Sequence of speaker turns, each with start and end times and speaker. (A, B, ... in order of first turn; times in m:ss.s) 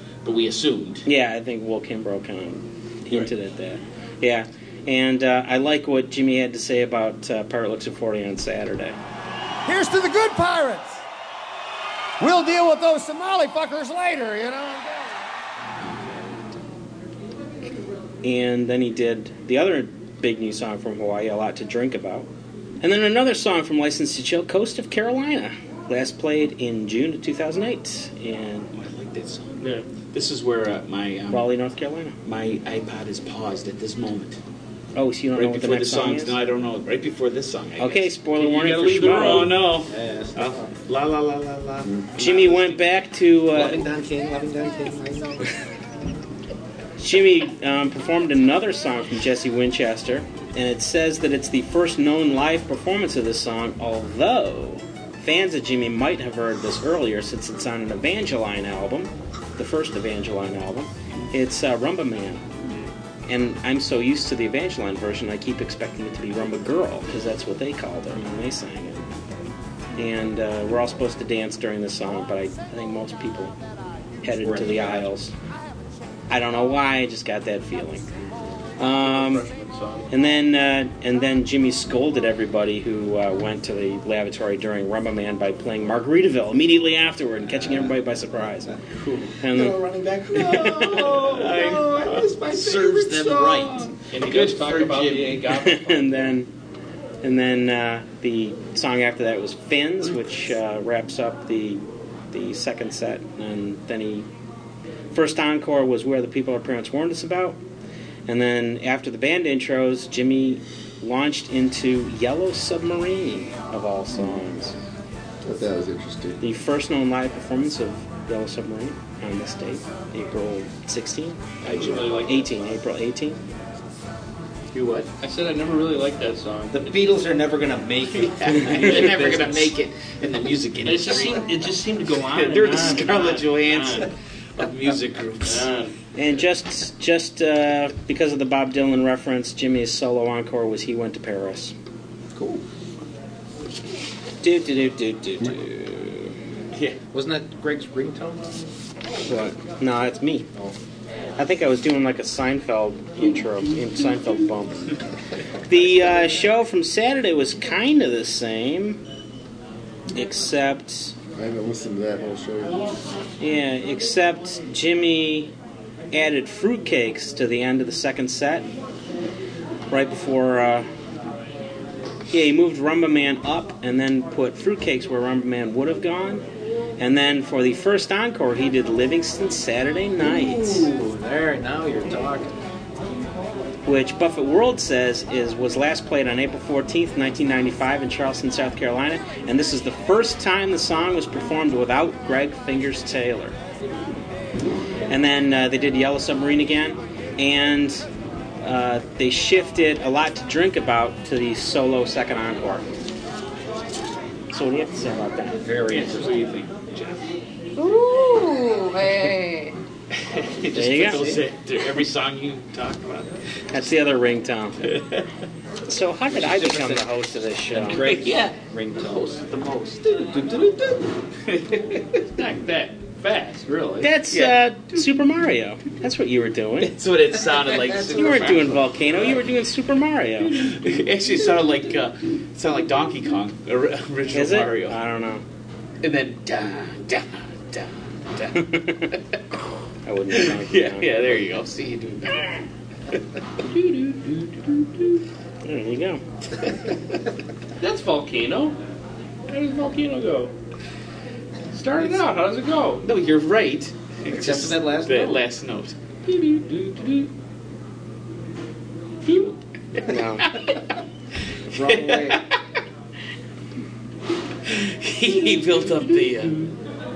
0:00.2-0:01.0 A
0:01.0-0:09.0 B
0:09.6-0:11.0 C
0:12.2-0:15.2 C
0:15.8-0:16.5 A
0:18.2-0:22.3 B
0:22.8-0:28.7 B
0:28.7-0:31.5 A
0:29.6-0:29.9 D
0:31.3-0:32.2 B
0:32.2-0:34.4 A
0:35.0-0:36.3 B
0:35.4-0:43.0 A
0:37.8-0:39.5 B
0:38.4-0:39.6 D
0:39.6-0:40.7 E
0:42.2-0:43.8 B
0:43.5-0:45.5 E
0:47.0-1:02.4 B
1:03.3-1:09.0 B
1:10.0-1:13.5 B
1:14.2-1:15.3 B
1:14.4-1:15.1 E
1:16.3-1:18.1 B
1:18.8-1:19.5 B
1:19.0-1:20.1 D
1:20.1-1:28.8 B
1:29.4-1:29.8 B
1:29.4-1:34.0 E
1:30.3-1:31.2 B
1:30.4-1:35.5 A
1:34.1-1:36.4 D
1:35.5-1:36.5 B
1:37.2-1:44.2 B
1:45.1-1:47.6 B
1:48.3-1:54.8 B
1:55.4-1:56.4 F
1:56.4-2:03.4 B
2:01.6-2:02.2 A
2:01.6-2:02.4 D
2:04.7-2:06.9 D
2:06.7-2:09.8 E
2:08.2-2:11.7 A
2:10.8-2:14.1 D
2:12.2-2:15.7 A
2:15.4-2:15.9 D
2:16.2-2:21.7 B
2:22.3-2:22.6 E
2:24.4-2:26.3 B
2:26.7-2:27.0 A
2:27.1-2:28.5 E
2:29.2-2:30.5 B
2:31.4-2:34.9 B
2:33.2-2:34.2 A
2:35.7-2:39.0 B
2:40.1-2:41.1 B
2:41.3-2:42.8 F
2:43.4-2:45.5 B
2:46.1-2:48.7 B
2:49.9-2:50.9 B
2:52.3-2:56.4 B
2:57.0-3:00.9 B
3:00.2-3:02.6 E
3:03.8-3:13.6 B
3:15.1-3:18.0 B
3:18.6-3:22.8 B
3:24.5-3:25.6 B
3:25.6-3:26.6 E
3:25.9-3:27.2 A
3:27.8-3:29.7 G
3:30.2-3:33.8 A
3:30.7-3:31.4 B
3:31.0-3:31.4 E
3:33.7-3:34.8 B
3:34.9-3:35.2 A
3:35.9-3:38.0 B
3:36.3-3:37.1 E
3:37.7-3:41.0 E
3:37.9-3:39.4 A
3:41.5-3:42.2 A
3:42.4-3:44.1 D
3:44.0-3:46.9 B
3:44.3-3:44.6 A
3:46.8-3:49.4 A
3:47.5-3:48.6 E
3:48.1-3:50.7 B
3:50.5-3:55.0 A
3:54.3-3:55.4 B
3:56.0-3:59.4 A
3:58.6-3:59.1 B
4:00.0-4:01.5 B
4:00.3-4:03.2 A
4:03.6-4:05.2 D
4:05.6-4:06.2 B
4:06.6-4:07.1 A
4:07.8-4:08.8 D
4:09.5-4:10.5 D
4:11.7-4:13.0 D
4:13.0-4:16.0 A
4:14.3-4:15.4 E
4:16.3-4:17.3 D
4:19.2-4:20.8 A
4:20.0-4:20.5 B
4:21.7-4:22.4 E
4:21.7-4:22.6 A
4:24.6-4:26.7 A